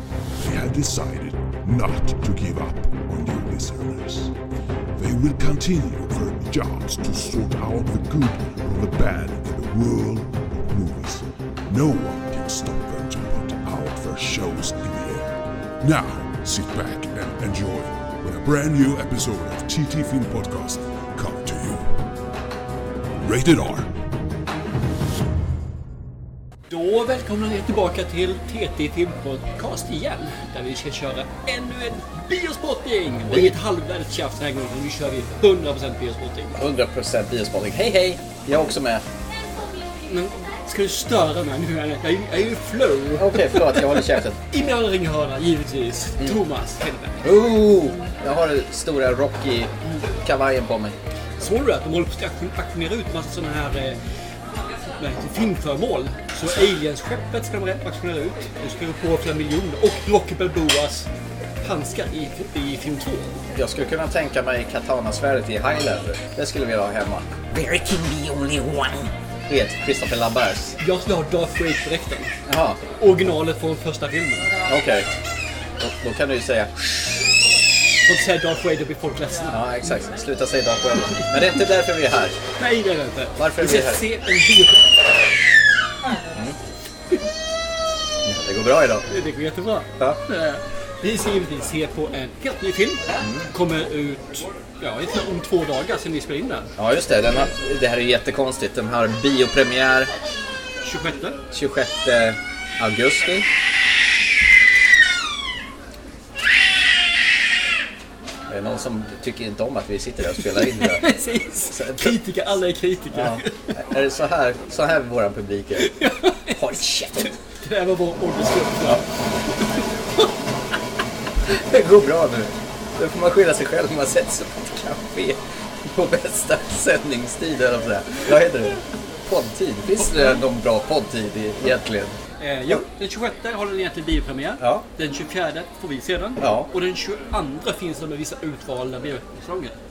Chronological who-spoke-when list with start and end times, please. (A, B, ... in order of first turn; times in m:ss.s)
0:00.4-0:04.3 A
0:05.0-0:22.0 A
0:23.2-0:23.9 A
0:26.7-0:36.6 B
0:33.1-0:33.6 C
0:36.5-0:39.0 C
0:40.1-0:47.4 B
0:43.2-0:44.4 C
0:47.2-0:51.0 C
0:51.4-0:54.0 B
0:55.0-1:01.1 B
1:01.6-1:03.4 B
1:03.6-1:10.8 C
1:10.8-1:12.3 B
1:12.5-1:12.8 C
1:13.0-1:14.5 B
1:14.6-1:15.1 C
1:15.8-1:16.7 C
1:18.0-1:19.7 B
1:19.5-1:22.4 C
1:22.6-1:24.9 B
1:23.4-1:24.1 C
1:26.3-1:26.6 C
1:28.2-1:29.1 C
1:29.1-1:36.7 B
1:33.2-1:33.5 C
1:36.8-1:40.1 C
1:40.8-1:41.4 B
1:41.5-1:43.5 C
1:48.5-1:51.0 C
1:50.6-1:53.7 B
1:51.7-1:52.2 C
1:53.1-1:56.0 C
1:55.8-1:59.1 B
1:56.5-1:57.3 C
2:01.4-2:12.8 C
2:12.4-2:19.8 B
2:14.6-2:14.9 C
2:16.4-2:16.7 C